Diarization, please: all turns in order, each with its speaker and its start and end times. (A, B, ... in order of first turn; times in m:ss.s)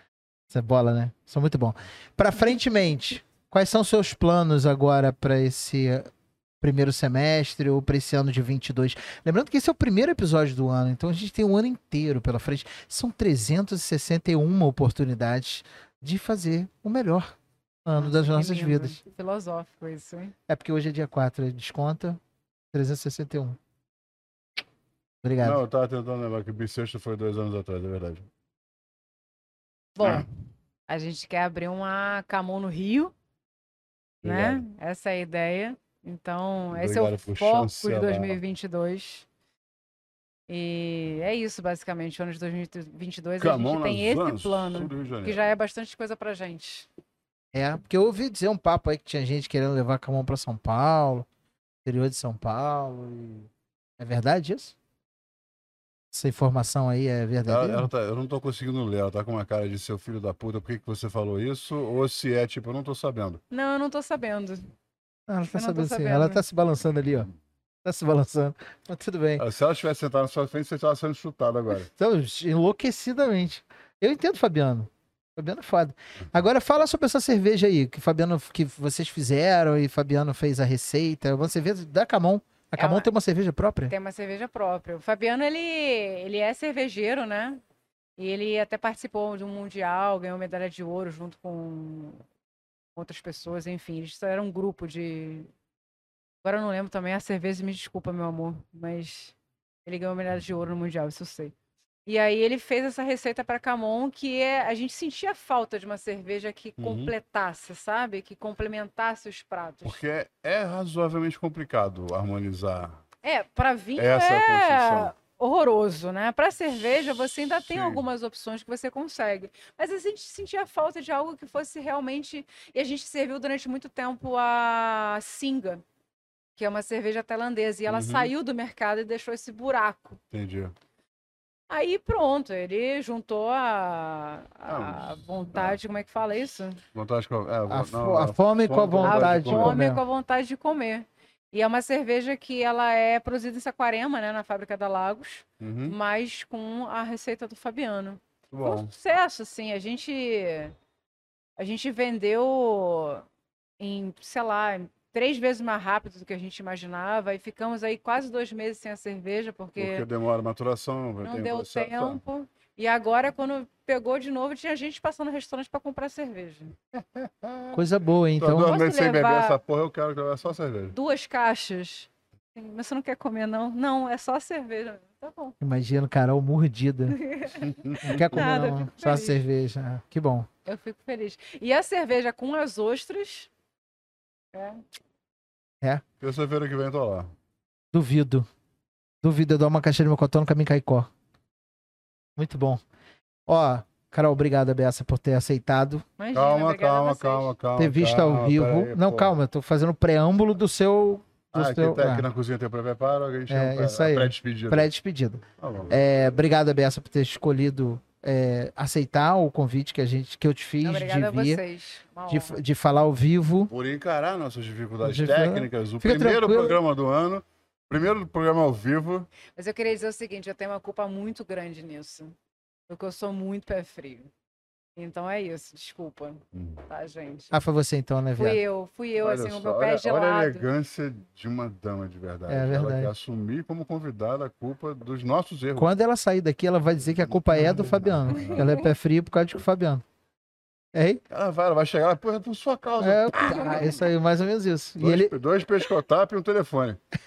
0:00.5-0:06.1 A
0:06.6-0:19.0 A
0:18.0-0:20.3 B
0:20.5-0:22.2 A
0:22.7-0:23.6 A
0:25.2-0:25.6 A
0:25.4-0:28.3 C
0:30.0-0:30.3 B
0:30.9-0:33.1 B
0:34.2-0:34.6 C
0:34.2-0:39.3 B
0:36.7-0:38.4 C
0:40.5-0:46.9 B
0:43.4-0:45.4 C
0:47.5-0:51.3 A
0:51.8-0:54.8 A
0:56.1-0:57.9 A
0:57.5-1:03.4 C
1:03.5-1:04.7 B
1:05.3-1:07.3 A
1:05.5-1:06.4 B
1:07.8-1:09.4 A
1:09.4-1:11.9 C
1:12.0-1:23.9 A
1:22.8-1:23.1 B
1:23.9-1:27.6 B
1:28.2-1:32.2 B
1:33.0-1:35.5 B
1:36.4-1:41.5 B
1:42.1-1:50.0 B
1:46.8-1:47.1 C
1:49.8-1:53.0 C
1:53.2-2:05.8 B
1:54.0-1:55.1 C
1:57.6-1:58.0 C
2:06.6-2:10.2 B
2:07.9-2:08.3 C
2:10.3-2:10.7 C
2:11.7-2:16.8 B
2:14.7-2:15.8 C
2:16.9-2:19.8 C
2:17.7-2:20.0 A
2:19.0-2:30.8 B
2:25.6-2:26.0 C
2:28.5-2:28.9 C
2:31.6-2:33.3 B
2:33.8-2:40.1 B
2:39.8-2:42.2 C
2:41.2-2:46.7 B
2:47.0-2:47.8 C
2:47.7-2:48.8 A
2:48.4-2:51.0 C
2:48.6-2:49.6 B
2:50.9-2:55.6 B
2:55.6-2:57.2 A
2:57.1-2:59.4 B
2:57.6-2:58.4 C
2:58.0-3:00.5 A
3:00.7-3:03.5 B
3:04.5-3:04.8 B
3:06.2-3:07.3 C
3:07.9-3:08.5 A
3:09.2-3:11.1 A
3:12.4-3:12.8 A
3:13.5-3:16.0 A
3:16.2-3:17.5 B
3:16.3-3:19.3 C
3:17.8-3:22.3 A
3:21.5-3:24.9 C
3:23.5-3:31.6 A
3:25.6-3:26.0 C
3:30.8-3:32.6 B
3:32.3-3:33.7 A
3:33.7-3:39.3 C
3:35.0-3:36.8 A
3:39.6-3:42.3 B
3:42.9-3:44.3 B
3:45.0-3:47.5 B
3:46.5-3:46.8 C
3:47.5-3:48.6 A
3:48.4-3:50.7 B
3:49.2-3:55.9 C
3:52.5-3:53.1 A
3:55.8-4:00.0 A
3:57.4-3:58.8 C
3:58.4-3:58.7 B
4:00.9-4:01.2 A
4:01.3-4:04.0 C
4:03.0-4:05.3 A
4:05.0-4:07.0 C